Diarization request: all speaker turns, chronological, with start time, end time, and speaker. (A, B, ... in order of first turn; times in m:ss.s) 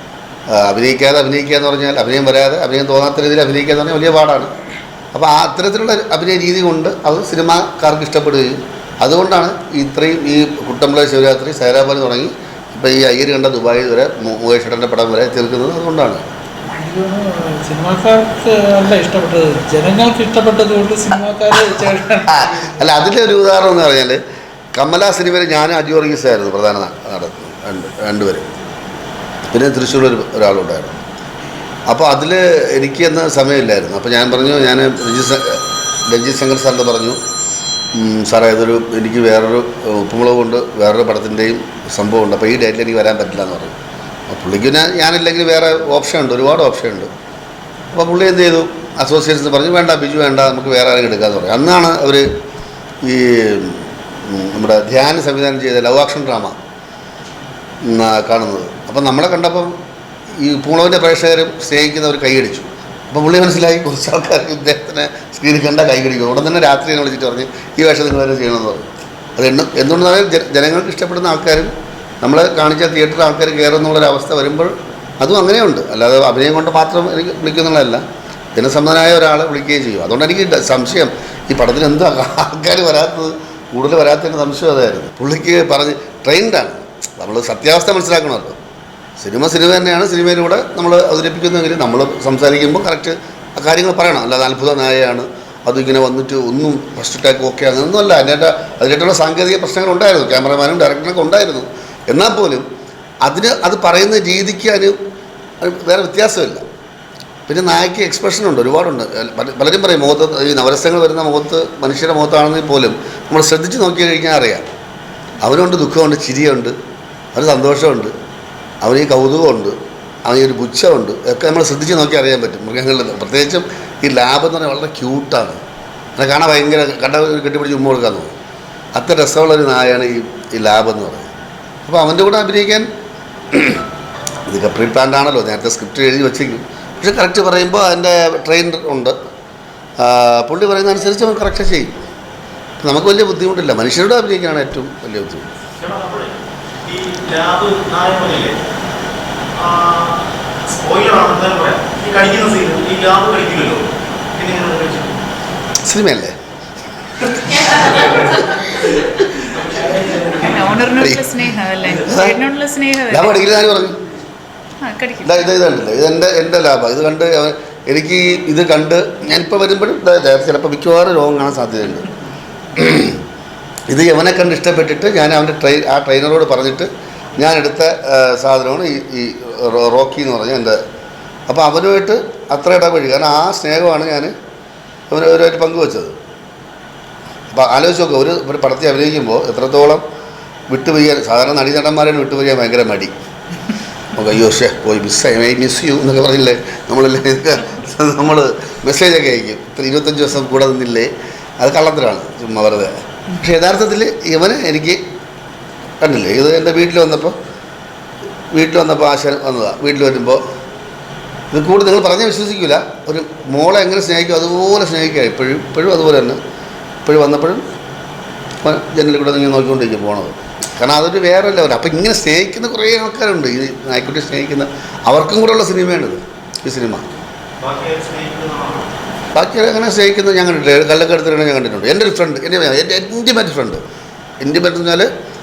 0:00.5-0:04.5 A
0:05.1-0:16.2 A
0:16.7-0:22.8 B
0:22.3-0:24.2 A
0:24.8-0:28.5 A
0:29.5-0:31.0 A
0:31.9-0:37.2 A
0:37.9-0:43.8 A
0:44.3-0:47.1 A
0:47.9-0:52.3 A
0:53.0-0:56.6 A
0:57.8-0:59.7 A
1:00.4-1:18.0 A
1:18.5-1:28.6 A
1:29.2-1:42.6 A
1:43.2-1:44.9 A
1:45.6-1:46.6 A
1:47.5-1:54.7 A
1:55.4-1:56.7 A
1:57.3-1:58.1 A
1:58.8-2:05.6 A
2:06.2-2:08.3 A
2:08.9-2:11.3 A
2:11.8-2:12.9 A
2:13.5-2:13.8 A
2:14.5-2:19.1 A
2:20.0-2:21.9 A
2:22.8-2:25.5 A
2:25.8-2:28.5 C
2:29.6-2:35.1 C
2:35.8-2:36.3 A
2:37.2-2:37.9 A
2:39.5-2:40.4 C
2:40.4-2:43.5 D
2:41.0-2:41.2 A
2:42.0-2:42.4 A
2:43.1-2:44.0 A
2:44.8-2:45.5 D
2:45.2-2:52.1 A
2:52.8-2:53.2 A
2:53.9-3:00.8 A
3:01.5-3:04.3 A
3:05.1-3:06.1 A
3:07.5-3:10.0 A
3:10.7-3:13.1 A
3:14.1-3:25.0 A
3:26.0-3:27.3 A
3:28.5-3:30.4 A
3:31.5-3:36.4 A
3:37.0-3:37.6 A
3:38.6-3:47.1 A
3:47.6-3:48.9 C
3:49.3-3:53.8 A
3:54.4-3:55.1 A